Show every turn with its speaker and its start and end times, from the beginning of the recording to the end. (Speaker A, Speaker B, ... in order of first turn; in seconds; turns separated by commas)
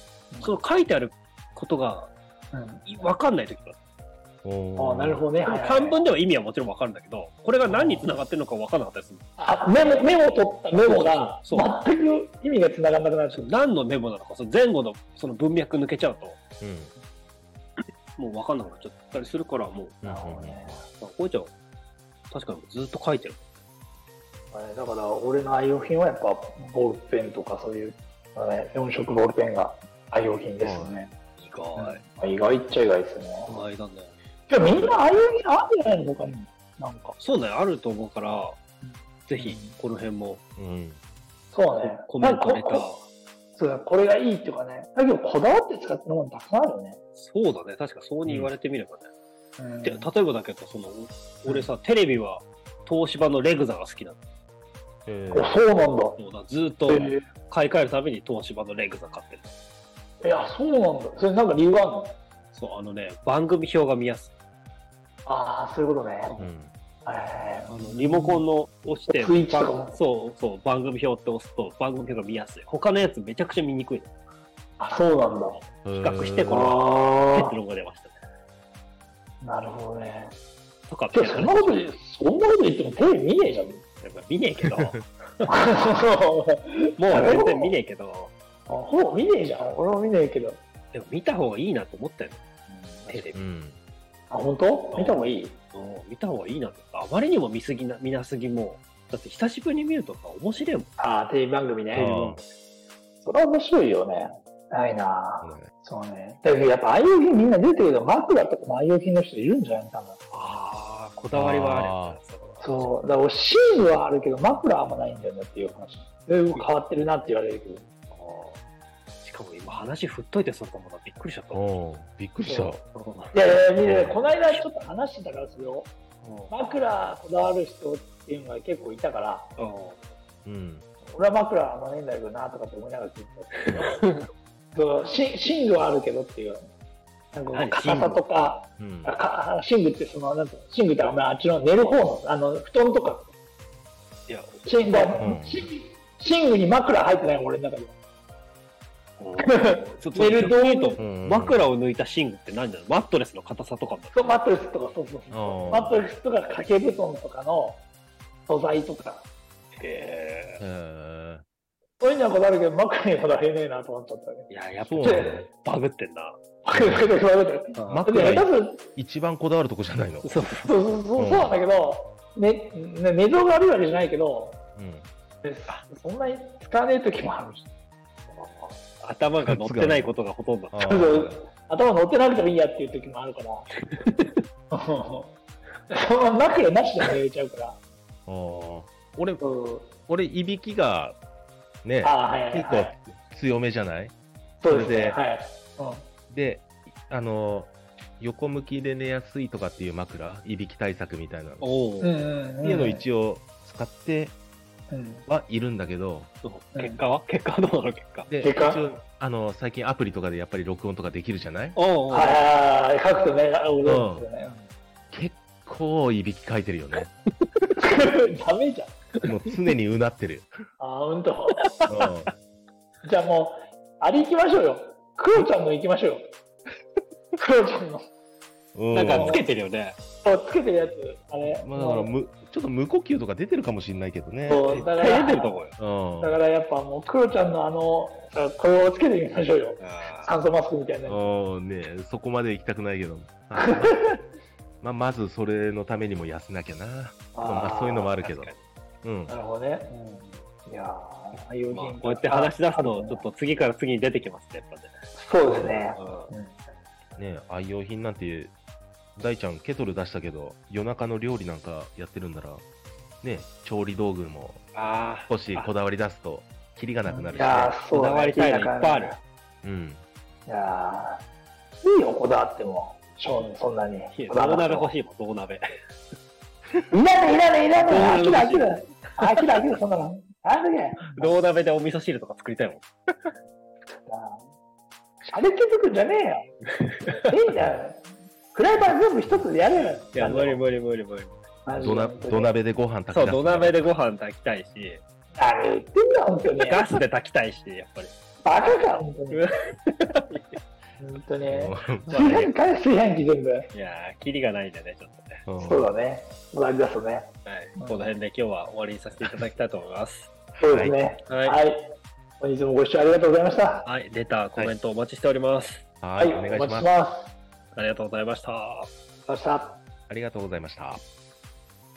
Speaker A: 0.3-0.6, Speaker B: 0.4-2.1, Speaker A: 2.5-2.9, Speaker B: 2.8-3.8, Speaker C: 4.4-5.2, Speaker A: 4.8-6.0, Speaker B: 5.4-9.2, Speaker A: 7.7-8.2, Speaker A: 9.4-13.5, Speaker B: 10.8-11.8, Speaker B: 13.3-16.4, Speaker C: 16.6-16.9, Speaker B: 18.2-20.0, Speaker C: 20.0-20.8, Speaker A: 20.0-20.9, Speaker B: 21.0-21.5, Speaker B: 22.3-23.4, Speaker A: 24.5-31.1, Speaker C: 30.6-30.9, Speaker B: 31.4-32.0, Speaker A: 31.8-33.5, Speaker B: 33.5-35.0, Speaker A: 34.5-37.1, Speaker B: 37.2-38.6, Speaker A: 38.8-39.8, Speaker B: 39.3-40.4, Speaker C: 40.6-41.0, Speaker A: 41.5-42.9, Speaker B: 41.7-43.0, Speaker A: 43.5-47.0, Speaker B: 47.1-49.1, Speaker C: 48.2-48.5, Speaker A: 49.6-50.1, Speaker B: 49.8-54.2, Speaker C: 55.0-55.6, Speaker A: 55.3-56.2, Speaker B: 56.2-59.5, Speaker A: 56.9-57.2, Speaker A: 60.2-62.1, Speaker B: 62.5-64.3, Speaker A: 65.2-66.3, Speaker B: 66.2-66.5, Speaker C: 66.4-66.7, Speaker A: 67.0-68.4, Speaker B: 67.7-74.1, Speaker A: 69.1-69.9, Speaker A: 74.8-75.6, Speaker C: 75.8-76.7, Speaker B: 75.9-78.1, Speaker A: 76.5-77.5, Speaker A: 79.4-80.3, Speaker B: 80.9-81.8, Speaker A: 81.1-83.8, Speaker B: 84.0-85.5, Speaker A: 85.5-87.7, Speaker B: 87.0-88.3, Speaker A: 88.7-90.6, Speaker B: 90.9-92.4, Speaker A: 92.7-93.3, Speaker B: 93.0-93.4, Speaker C: 93.3-93.8, Speaker A: 94.3-95.6, Speaker B: 94.9-100.9, Speaker A: 101.0-102.1, Speaker B: 101.9-102.4, Speaker C: 102.0-102.4, Speaker A: 103.2-110.2, Speaker C: 105.4-105.7, Speaker B: 110.3-112.9, Speaker C: 111.3-112.2, Speaker A: 112.6-117.9, Speaker B: 118.1-118.6, Speaker B: 119.2-121.8, Speaker C: 121.5-122.8, Speaker B: 122.4-123.4, Speaker A: 122.5-122.7, Speaker A: 123.3-125.9, Speaker C: 123.8-124.2, Speaker B: 126.2-126.5, Speaker A: 126.5-129.5, Speaker B: 129.6-130.1, Speaker C: 130.4-130.8, Speaker A: 131.0-133.9, Speaker B: 133.6-134.3, Speaker A: 134.7-136.7, Speaker A: 137.3-143.3, Speaker B: 137.5-138.2, Speaker C: 138.8-139.1, Speaker B: 144.3-145.1, Speaker A: 144.6-147.9, Speaker C: 145.1-145.7, Speaker B: 149.2-154.4, Speaker A: 149.4-151.0, Speaker C: 151.0-151.7, Speaker A: 154.1-157.8, Speaker C: 155.3-156.1, Speaker A: 158.5-159.2, Speaker B: 159.7-160.6, Speaker C: 160.6-161.4, Speaker A: 162.0-164.5, Speaker B: 164.5-166.3, Speaker C: 164.8-165.5, Speaker A: 165.0-165.4, Speaker A: 166.6-168.9, Speaker C: 166.7-167.0, Speaker B: 167.7-168.4, Speaker C: 167.9-170.3, Speaker B: 170.2-170.8, Speaker A: 170.6-174.6, Speaker C: 171.2-171.6, Speaker C: 174.8-175.1, Speaker A: 175.4-177.7, Speaker B: 178.3-180.8, Speaker C: 179.4-180.1, Speaker C: 180.7-181.4, Speaker A: 180.8-183.7, Speaker B: 183.9-184.4, Speaker A: 184.7-185.3, Speaker A: 185.9-187.8, Speaker C: 188.3-189.4, Speaker A: 189.4-189.9, Speaker C: 190.1-191.2, Speaker C: 191.8-194.1, Speaker A: 192.0-193.0, Speaker A: 194.6-196.1, Speaker C: 194.7-195.2, Speaker C: 196.3-201.7, Speaker B: 201.6-202.1, Speaker A: 202.0-203.0, Speaker C: 202.6-204.3, Speaker A: 204.9-205.3, Speaker C: 205.3-206.3, Speaker B: 206.4-208.3, Speaker A: 206.7-207.0, Speaker C: 208.3-211.8, Speaker A: 208.4-208.8, Speaker B: 211.7-212.4, Speaker A: 212.1-214.7, Speaker C: 213.8-214.3, Speaker C: 215.1-217.1, Speaker A: 217.8-218.9, Speaker C: 219.2-220.5, Speaker A: 220.8-221.6, Speaker B: 221.5-222.1, Speaker C: 221.9-222.3, Speaker A: 223.0-226.2, Speaker A: 227.4-228.0, Speaker C: 228.7-229.4, Speaker B: 228.9-230.0, Speaker A: 229.1-229.4, Speaker A: 230.2-232.1, Speaker C: 231.4-234.8, Speaker A: 234.5-235.7, Speaker B: 234.7-235.8, Speaker C: 235.8-236.4, Speaker A: 236.2-241.4, Speaker B: 239.8-240.3, Speaker C: 241.1-244.0, Speaker A: 243.6-244.2, Speaker C: 244.8-248.5, Speaker A: 247.3-248.2, Speaker B: 248.2-248.6, Speaker C: 249.0-249.3, Speaker A: 249.3-253.2, Speaker B: 251.7-254.9, Speaker A: 255.1-256.7, Speaker B: 255.5-256.3, Speaker C: 257.2-258.5, Speaker C: 259.1-262.6, Speaker C: 263.2-264.6, Speaker B: 264.7-265.7, Speaker C: 265.3-267.8, Speaker A: 267.1-269.2, Speaker B: 267.9-269.2, Speaker C: 269.6-270.0, Speaker A: 270.5-271.2, Speaker A: 271.8-274.9, Speaker B: 274.1-275.6, Speaker A: 276.9-281.3, Speaker B: 277.9-279.4, Speaker B: 281.1-282.9, Speaker A: 284.1-284.4, Speaker A: 285.3-286.5, Speaker A: 287.3-290.6, Speaker B: 289.7-291.4, Speaker A: 291.6-292.6, Speaker C: 291.8-293.8, Speaker B: 293.1-295.0, Speaker A: 295.3-296.9, Speaker B: 296.6-298.1, Speaker A: 298.4-299.4, Speaker B: 299.3-300.6, Speaker A: 301.0-303.7, Speaker C: 301.5-302.2, Speaker B: 302.1-302.5, Speaker B: 303.7-305.4, Speaker C: 305.4-305.9, Speaker A: 305.6-308.1, Speaker B: 307.4-310.3, Speaker A: 310.6-311.9, Speaker C: 310.6-311.0, Speaker B: 311.3-311.6, Speaker A: 312.4-313.9, Speaker B: 313.8-315.8, Speaker C: 316.0-316.9, Speaker A: 316.2-317.3, Speaker B: 317.7-318.9, Speaker A: 319.3-319.8, Speaker C: 320.1-321.0